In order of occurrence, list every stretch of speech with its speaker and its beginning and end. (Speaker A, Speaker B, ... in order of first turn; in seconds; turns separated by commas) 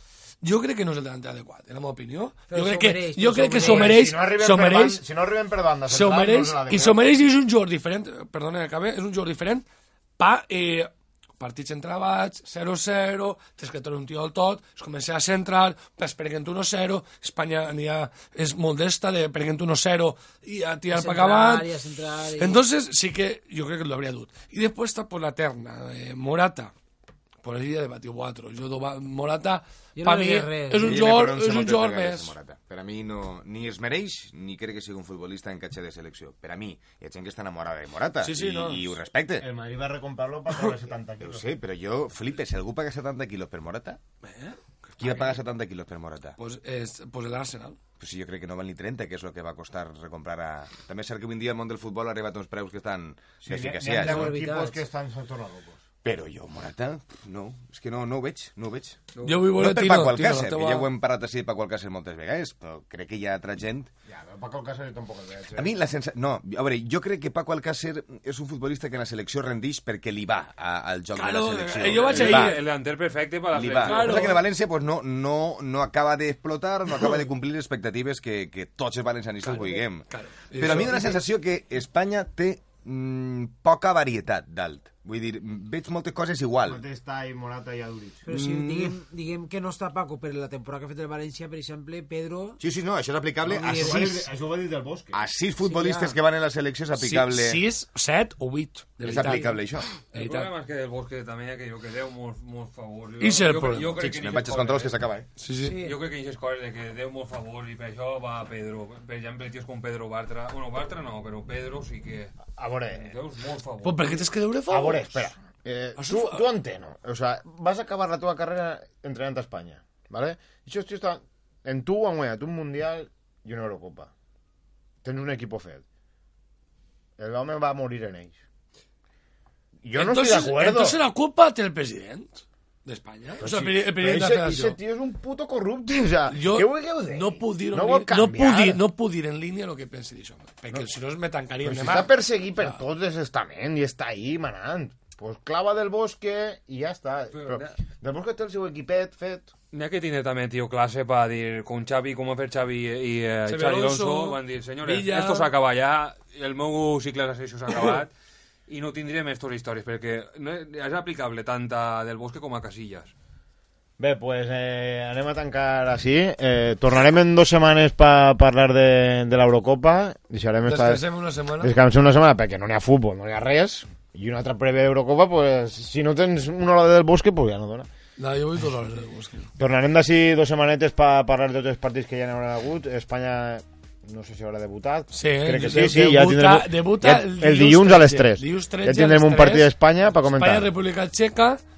Speaker A: 0.4-5.0, Speaker B: 2.5-4.0, Speaker C: 3.5-7.0, Speaker A: 5.9-9.7, Speaker A: 10.2-21.7, Speaker B: 20.9-22.6, Speaker A: 22.4-26.7, Speaker A: 27.4-32.3, Speaker B: 30.0-31.0, Speaker D: 30.8-39.5, Speaker A: 38.2-38.9, Speaker C: 39.4-41.4, Speaker D: 41.2-44.0, Speaker A: 44.2-45.4, Speaker D: 45.0-46.4, Speaker A: 46.4-47.8, Speaker D: 48.0-54.3, Speaker C: 53.4-55.9, Speaker B: 54.0-54.8, Speaker D: 56.0-63.9, Speaker A: 59.2-60.9, Speaker C: 64.1-65.7, Speaker D: 65.5-72.6, Speaker A: 71.2-72.6, Speaker E: 71.8-74.4, Speaker D: 73.5-86.8, Speaker A: 73.8-74.4, Speaker A: 79.4-81.2, Speaker C: 86.7-88.3, Speaker B: 88.3-92.6, Speaker D: 88.3-88.9, Speaker D: 92.6-94.3, Speaker B: 93.5-94.2, Speaker C: 93.7-95.2, Speaker D: 95.1-97.6, Speaker B: 95.6-96.2, Speaker A: 97.0-100.5, Speaker D: 99.0-99.9, Speaker E: 100.1-105.0, Speaker A: 103.2-104.2, Speaker D: 104.0-105.3, Speaker A: 105.4-105.8, Speaker B: 105.6-106.0, Speaker E: 105.8-112.3, Speaker C: 112.5-113.1, Speaker E: 112.9-114.2, Speaker A: 113.8-115.3, Speaker C: 114.7-124.1, Speaker A: 116.0-116.4, Speaker C: 125.0-125.8, Speaker C: 127.2-128.4, Speaker C: 129.8-131.0, Speaker A: 130.0-134.8, Speaker C: 133.4-138.8, Speaker A: 136.3-142.8, Speaker C: 141.6-149.5, Speaker E: 147.3-147.7, Speaker E: 149.7-158.1, Speaker A: 153.5-155.5, Speaker E: 158.7-163.1, Speaker C: 164.0-171.0, Speaker A: 170.7-171.7, Speaker C: 171.6-177.9, Speaker A: 178.2-179.5, Speaker C: 179.6-190.7, Speaker A: 185.1-191.6